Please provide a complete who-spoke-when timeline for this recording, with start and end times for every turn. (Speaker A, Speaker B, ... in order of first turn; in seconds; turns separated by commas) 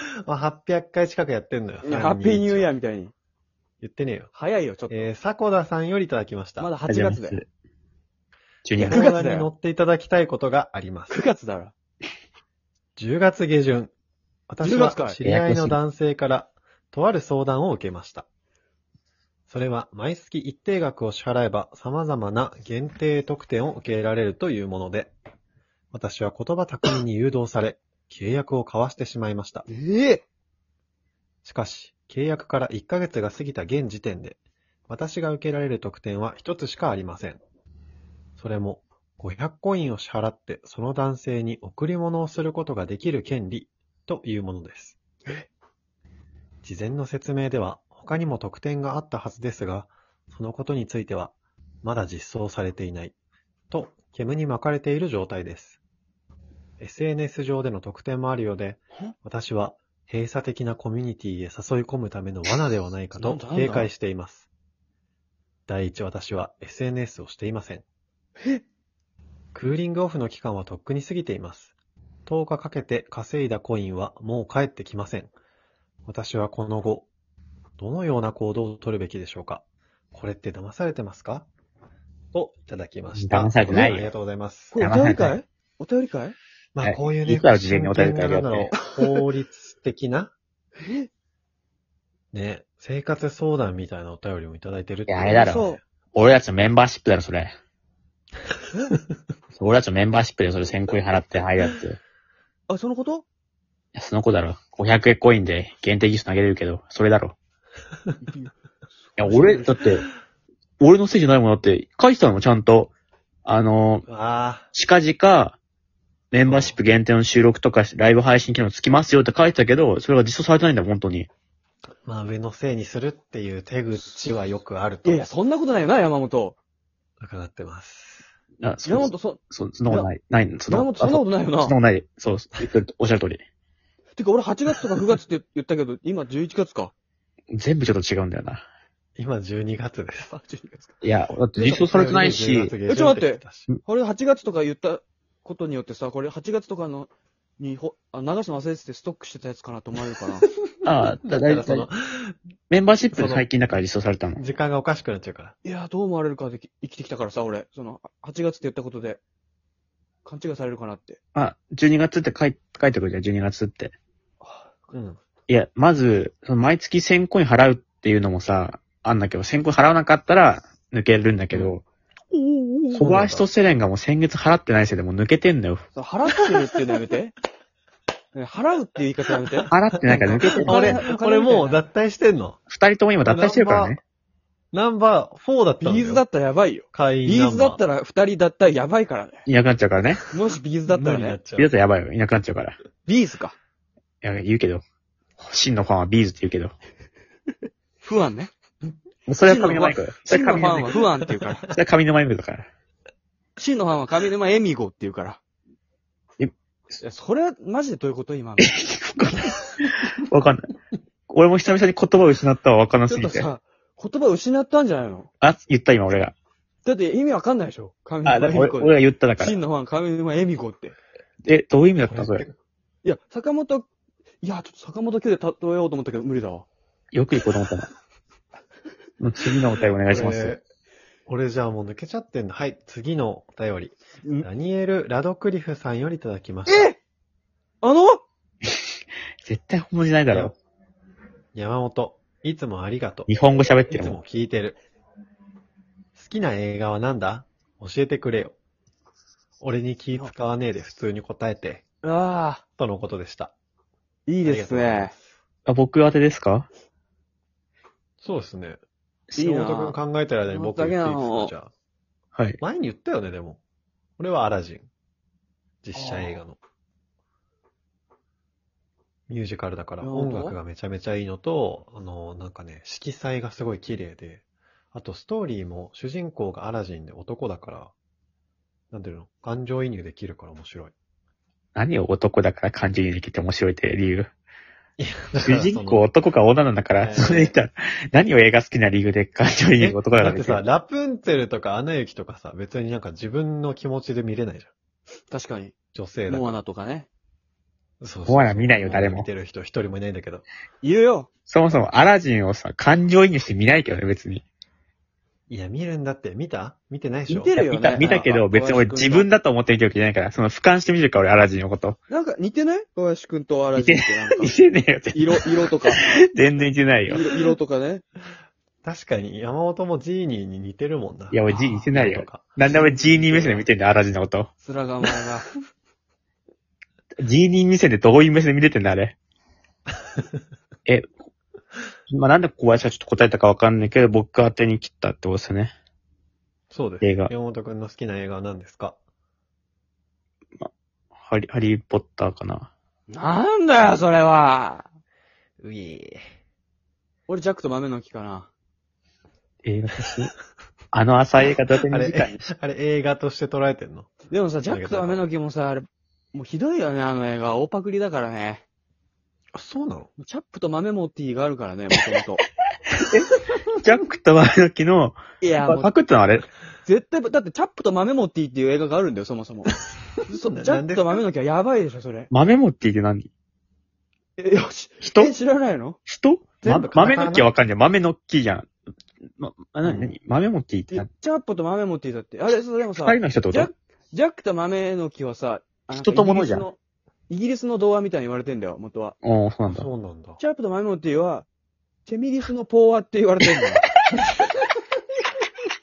Speaker A: 0.2-2.7, Speaker B: 1.8-3.1, Speaker A: 3.8-4.3, Speaker B: 4.3-5.1, Speaker A: 4.9-6.7, Speaker B: 6.6-7.4, Speaker C: 6.9-7.5, Speaker C: 8.7-9.0, Speaker A: 8.8-11.2, Speaker B: 8.8-9.5, Speaker B: 11.1-11.7, Speaker A: 13.0-13.9, Speaker A: 14.5-18.3, Speaker B: 14.6-15.2, Speaker C: 15.2-15.8, Speaker A: 19.5-25.1, Speaker A: 25.9-29.7, Speaker B: 29.7-30.2, Speaker A: 31.4-37.4, Speaker A: 38.4-45.0, Speaker A: 46.6-53.1, Speaker A: 53.7-55.8, Speaker A: 56.8-64.5, Speaker B: 63.1-63.9, Speaker A: 65.7-67.8, Speaker A: 69.5-71.8, Speaker A: 72.3-75.3, Speaker A: 76.1-77.1, Speaker A: 77.8-81.5, Speaker A: 82.3-84.8, Speaker C: 83.2-84.1, Speaker B: 84.7-86.4, Speaker C: 84.8-85.4, Speaker A: 86.8-90.3, Speaker C: 86.8-88.7, Speaker B: 90.8-91.1, Speaker A: 92.3-95.8, Speaker C: 95.1-97.5, Speaker B: 95.3-95.8, Speaker B: 98.7-99.0, Speaker C: 99.6-102.0, Speaker B: 102.7-103.2, Speaker C: 104.0-107.4, Speaker B: 108.2-108.5, Speaker B: 109.1-109.9, Speaker C: 109.2-110.1, Speaker C: 110.8-112.9, Speaker C: 113.5-114.1, Speaker A: 114.1-114.7, Speaker C: 114.7-115.6, Speaker C: 116.3-121.3, Speaker A: 116.5-116.8, Speaker A: 122.1-125.2, Speaker B: 124.0-124.3, Speaker B: 125.0-126.6, Speaker A: 127.2-128.2, Speaker C: 128.6-133.4, Speaker B: 128.9-130.1, Speaker B: 130.7-131.8, Speaker B: 134.2-136.9, Speaker C: 137.5-138.6, Speaker A: 139.2-140.4, Speaker B: 140.4-140.9, Speaker C: 141.0-142.7, Speaker A: 141.6-143.7, Speaker B: 142.9-150.4, Speaker C: 150.8-151.9, Speaker A: 151.2-152.4, Speaker C: 152.7-154.4, Speaker A: 153.1-153.5, Speaker A: 154.4-155.6, Speaker B: 155.7-159.2, Speaker B: 160.2-161.2, Speaker C: 161.3-163.9, Speaker B: 164.4-164.7, Speaker A: 164.9-165.2, Speaker C: 165.5-171.8, Speaker B: 172.3-173.0, Speaker C: 172.9-175.9, Speaker A: 173.0-173.5, Speaker B: 175.9-177.3, Speaker B: 178.3-181.8, Speaker C: 179.7-181.0, Speaker A: 180.1-182.6, Speaker C: 182.7-184.0, Speaker A: 183.2-184.0, Speaker A: 184.7-186.2, Speaker B: 185.8-189.4, Speaker A: 186.9-187.8, Speaker C: 189.5-190.3, Speaker B: 190.3-191.4, Speaker A: 190.9-191.7, Speaker C: 191.6-192.8, Speaker B: 193.1-193.6, Speaker C: 194.2-194.8, Speaker C: 195.4-196.8, Speaker B: 198.0-198.5, Speaker C: 199.3-201.0, Speaker B: 199.4-201.7, Speaker C: 201.7-202.7, Speaker B: 203.6-205.4, Speaker B: 207.0-208.7, Speaker C: 208.6-210.7, Speaker C: 211.3-213.5, Speaker B: 213.1-215.3, Speaker C: 215.4-216.3, Speaker B: 216.8-221.0, Speaker C: 218.2-219.6, Speaker C: 221.4-222.4, Speaker A: 222.0-222.5, Speaker B: 223.0-223.9, Speaker B: 224.4-226.7, Speaker C: 227.1-227.9, Speaker C: 229.2-230.6, Speaker A: 230.1-230.6, Speaker A: 231.3-236.9, Speaker B: 236.7-237.0, Speaker B: 237.8-238.2, Speaker C: 239.4-240.6, Speaker A: 240.3-240.5, Speaker A: 241.5-243.3, Speaker C: 243.3-244.2, Speaker A: 243.9-244.8, Speaker A: 246.2-248.6, Speaker A: 249.6-251.8, Speaker B: 252.0-252.6, Speaker A: 252.8-253.5, Speaker B: 254.3-255.1, Speaker A: 254.4-255.2, Speaker C: 255.7-256.7, Speaker A: 258.2-258.8, Speaker B: 259.4-260.0, Speaker A: 259.4-261.7, Speaker B: 260.5-261.5, Speaker A: 262.6-263.6, Speaker A: 264.2-264.9, Speaker A: 265.8-266.6, Speaker B: 265.9-266.4, Speaker A: 269.3-274.4, Speaker B: 270.0-270.6, Speaker A: 274.9-277.9, Speaker A: 278.9-280.9, Speaker C: 281.8-284.3, Speaker A: 285.0-286.1, Speaker C: 285.4-290.6, Speaker A: 287.0-287.5, Speaker A: 289.8-294.7, Speaker B: 295.3-295.8, Speaker A: 295.9-296.6, Speaker B: 296.3-297.1, Speaker A: 298.0-300.5, Speaker C: 298.3-299.3, Speaker B: 300.8-301.3, Speaker C: 301.5-304.4, Speaker A: 305.5-307.5, Speaker B: 307.3-309.3, Speaker C: 307.6-312.0, Speaker B: 312.1-314.5, Speaker C: 313.8-317.2, Speaker B: 315.1-316.0, Speaker B: 317.1-318.0, Speaker A: 318.8-323.7, Speaker C: 321.3-324.5, Speaker B: 324.6-325.5, Speaker C: 327.2-329.2, Speaker C: 332.1-335.7, Speaker A: 336.7-339.0, Speaker C: 337.0-337.3, Speaker C: 341.2-342.7, Speaker B: 343.1-344.9, Speaker A: 345.6-346.2, Speaker B: 347.3-348.5, Speaker C: 349.6-350.3, Speaker C: 350.9-352.4, Speaker A: 351.9-354.1, Speaker B: 354.3-358.6, Speaker A: 354.7-355.3, Speaker A: 359.5-360.1, Speaker B: 360.2-362.4, Speaker C: 362.9-366.5, Speaker B: 365.4-365.9, Speaker B: 366.9-369.7, Speaker A: 370.2-371.2, Speaker B: 370.3-372.3, Speaker C: 372.3-373.3, Speaker B: 374.4-376.0, Speaker C: 375.0-375.4, Speaker C: 376.1-378.7, Speaker A: 376.6-377.5, Speaker C: 379.4-381.1, Speaker A: 379.8-380.1, Speaker B: 380.9-386.8, Speaker C: 383.0-383.7, Speaker C: 385.9-386.7, Speaker B: 387.3-389.1, Speaker C: 389.2-389.9, Speaker A: 389.7-390.4, Speaker B: 390.4-391.5, Speaker B: 392.1-394.5